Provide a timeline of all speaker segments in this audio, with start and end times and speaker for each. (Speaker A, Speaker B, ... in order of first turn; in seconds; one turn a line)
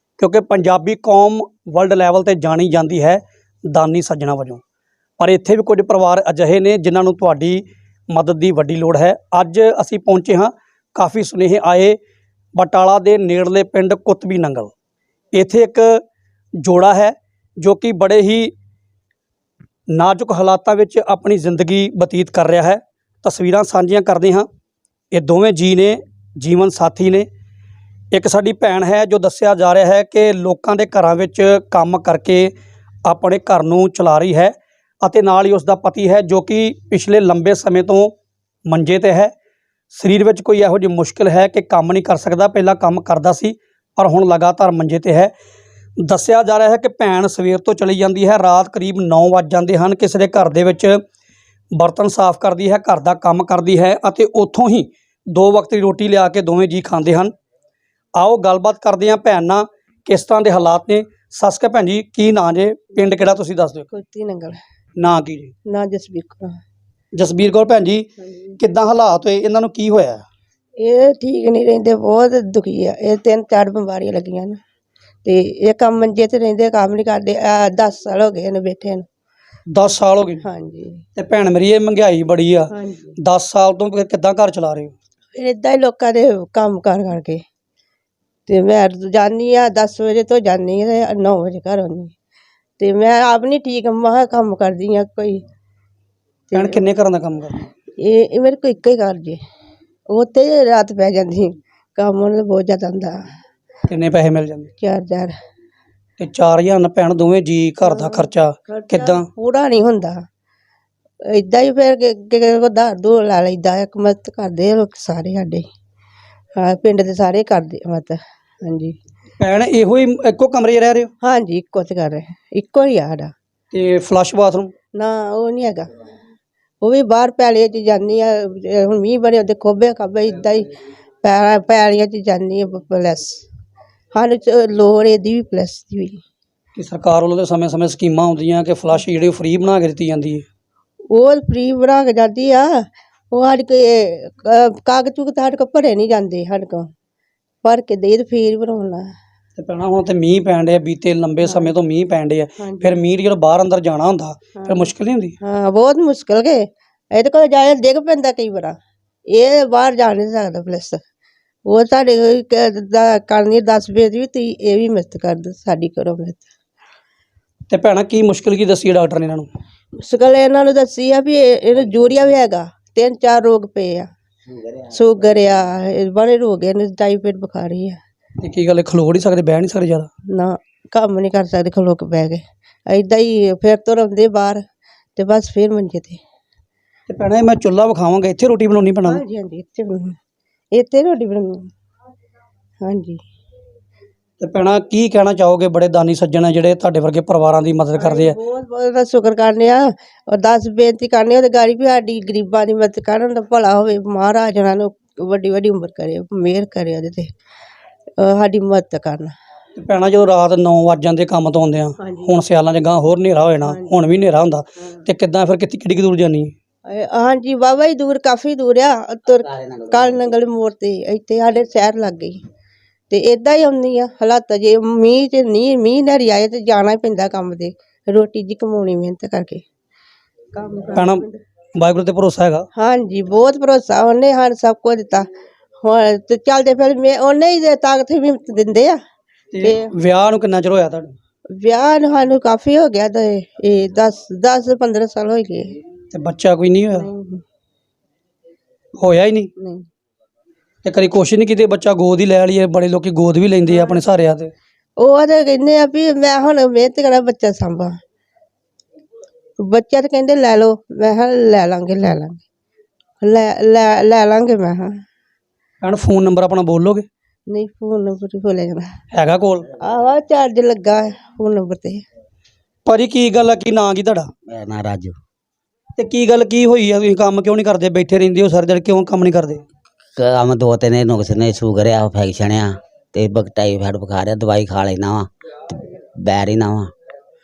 Speaker A: 0.2-4.6
Speaker A: 5.2-12.0
Speaker A: 12.5-14.7
Speaker A: 15.3-16.0
Speaker A: 16.6-18.5
Speaker A: 19.9-24.5
Speaker A: 25.1-27.2
Speaker A: 28.1-32.5
Speaker A: 33.0-38.1
Speaker A: 38.7-39.3
Speaker A: 39.9-45.3
Speaker A: 46.0-51.0
Speaker A: 51.7-57.3
Speaker A: 58.1-63.9
Speaker B: 63.9-64.6
Speaker A: 65.0-65.5
Speaker B: 65.7-66.5
Speaker A: 67.1-70.2
Speaker B: 70.8-74.6
Speaker B: 75.2-79.0
Speaker A: 79.7-80.4
Speaker B: 80.4-81.0
Speaker A: 81.2-84.9
Speaker B: 82.7-83.1
Speaker B: 85.3-87.4
Speaker B: 88.5-92.1
Speaker B: 92.8-95.4
Speaker B: 96.5-96.8
Speaker A: 96.5-97.6
Speaker B: 98.0-99.4
Speaker B: 100.1-103.2
Speaker A: 103.9-104.7
Speaker B: 104.8-105.3
Speaker A: 106.2-109.3
Speaker B: 107.8-110.2
Speaker B: 111.2-115.6
Speaker B: 116.5-119.0
Speaker A: 119.4-121.1
Speaker B: 121.2-123.3
Speaker A: 123.7-124.7
Speaker B: 124.9-125.9
Speaker B: 126.8-130.7
Speaker B: 131.2-133.4
Speaker B: 134.1-136.2
Speaker A: 136.7-140.4
Speaker B: 141.1-146.9
Speaker B: 147.6-149.1
Speaker A: 149.6-155.3
Speaker B: 151.4-151.7
Speaker B: 152.6-153.0
Speaker B: 154.6-154.9
Speaker B: 155.4-158.8
Speaker B: 159.3-161.0
Speaker B: 161.6-166.4
Speaker A: 167.7-169.5
Speaker B: 170.0-174.1
Speaker B: 174.9-178.0
Speaker A: 178.4-180.1
Speaker B: 180.3-184.6
Speaker B: 185.2-186.2
Speaker A: 187.1-189.2
Speaker B: 189.1-190.2
Speaker B: 190.7-191.7
Speaker B: 192.8-193.2
Speaker A: 194.4-198.3
Speaker B: 198.0-207.3
Speaker B: 208.2-209.3
Speaker A: 209.8-216.5
Speaker B: 212.0-212.3
Speaker B: 213.7-213.9
Speaker B: 216.8-222.4
Speaker B: 223.1-229.6
Speaker B: 230.5-231.4
Speaker A: 230.9-231.2
Speaker A: 231.8-232.7
Speaker B: 232.8-235.3
Speaker B: 235.8-239.0
Speaker A: 239.5-241.1
Speaker B: 239.6-239.9
Speaker B: 241.5-245.7
Speaker A: 246.1-247.1
Speaker B: 246.9-247.4
Speaker A: 249.0-249.5
Speaker B: 249.6-249.8
Speaker A: 250.8-254.5
Speaker B: 253.7-254.0
Speaker B: 255.0-258.0
Speaker B: 259.6-262.4
Speaker B: 263.2-264.9
Speaker A: 265.8-267.1
Speaker B: 267.5-268.9
Speaker A: 269.1-269.7
Speaker B: 269.8-272.0
Speaker A: 272.9-274.3
Speaker C: 274.5-275.1
Speaker A: 275.9-279.6
Speaker C: 280.2-286.9